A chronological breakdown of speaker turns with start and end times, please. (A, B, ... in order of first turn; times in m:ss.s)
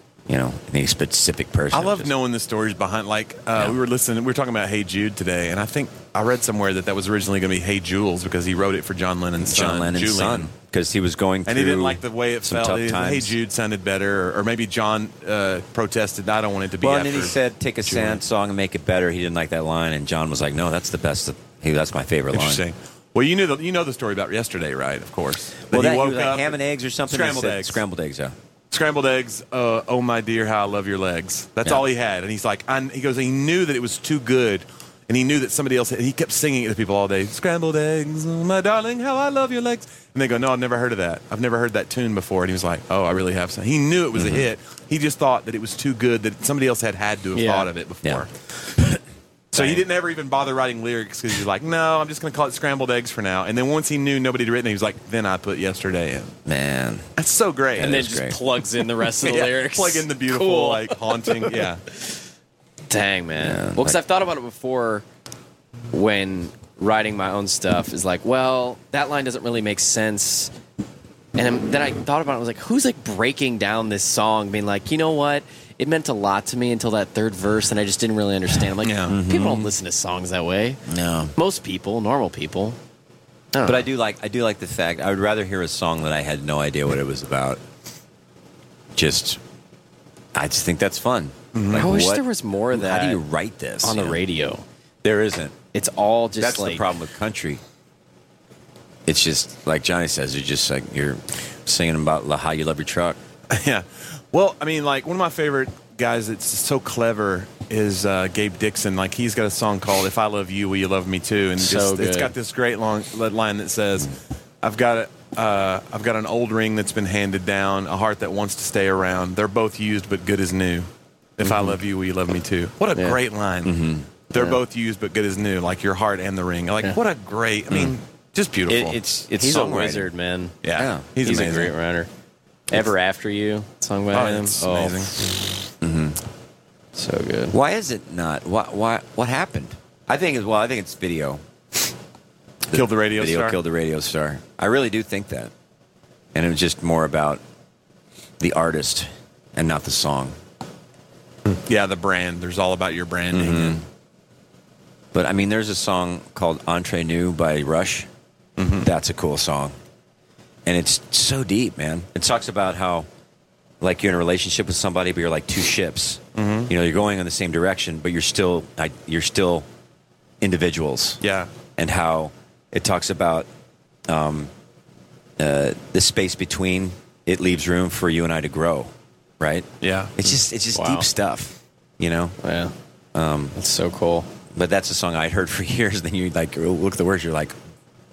0:00.3-0:02.1 A
0:01.7-0:10.5 B
0:09.4-0:13.4 A
0:11.5-0:18.2 B
0:16.8-0:22.6 A
0:22.3-0:27.8 B
0:25.7-0:28.4 A
0:28.7-0:48.3 B
0:44.2-0:44.5 A
0:47.4-0:47.7 C
0:49.5-0:56.4 B
0:49.5-0:49.8 A
0:56.5-0:57.1 A
0:57.2-0:58.1 B
0:57.8-0:58.4 A
0:57.8-1:01.5 C
0:59.2-1:01.8 B
1:02.9-1:05.0 C
1:03.4-1:04.0 A
1:05.9-1:10.5 C
1:11.4-1:20.8 C
1:18.8-1:19.2 B
1:19.1-1:19.7 A
1:20.9-1:21.3 A
1:21.4-1:22.8 C
1:23.5-1:23.9 C
1:23.6-1:27.6 A
1:29.0-1:29.4 A
1:30.4-1:34.2 A
1:31.5-1:31.9 B
1:31.7-1:33.2 C
1:33.8-1:34.6 C
1:35.0-1:35.6 A
1:35.7-1:36.8 C
1:36.4-1:37.6 A
1:39.1-1:43.2 A
1:43.5-2:09.0 B
1:51.6-1:52.3 C
2:01.4-2:01.8 A
2:03.6-2:04.1 A
2:08.7-2:10.1 A
2:09.3-2:10.6 C
2:10.6-2:11.7 B
2:10.7-2:11.1 A
2:11.2-2:12.1 C
2:12.7-2:15.1 C
2:14.1-2:15.2 B
2:15.8-2:16.2 A
2:17.0-2:17.5 C
2:17.5-2:21.9 A
2:22.7-2:25.5 A
2:22.7-2:23.6 B
2:26.3-2:27.4 A
2:28.4-2:30.4 A
2:31.7-2:33.8 B
2:33.3-2:33.8 A
2:35.1-2:38.1 A
2:38.6-2:38.9 B
2:38.8-2:39.8 A
2:40.7-2:43.1 A
2:43.8-2:49.7 A
2:46.4-2:46.7 B
2:50.4-2:51.2 A
2:51.2-2:51.5 B
2:51.8-2:53.5 A
2:54.1-2:54.5 A
2:55.4-3:02.4 A
2:59.8-3:00.2 B
3:00.8-3:01.1 C
3:02.4-3:02.7 C
3:03.2-3:03.6 A
3:03.6-3:04.3 C
3:04.5-3:07.6 A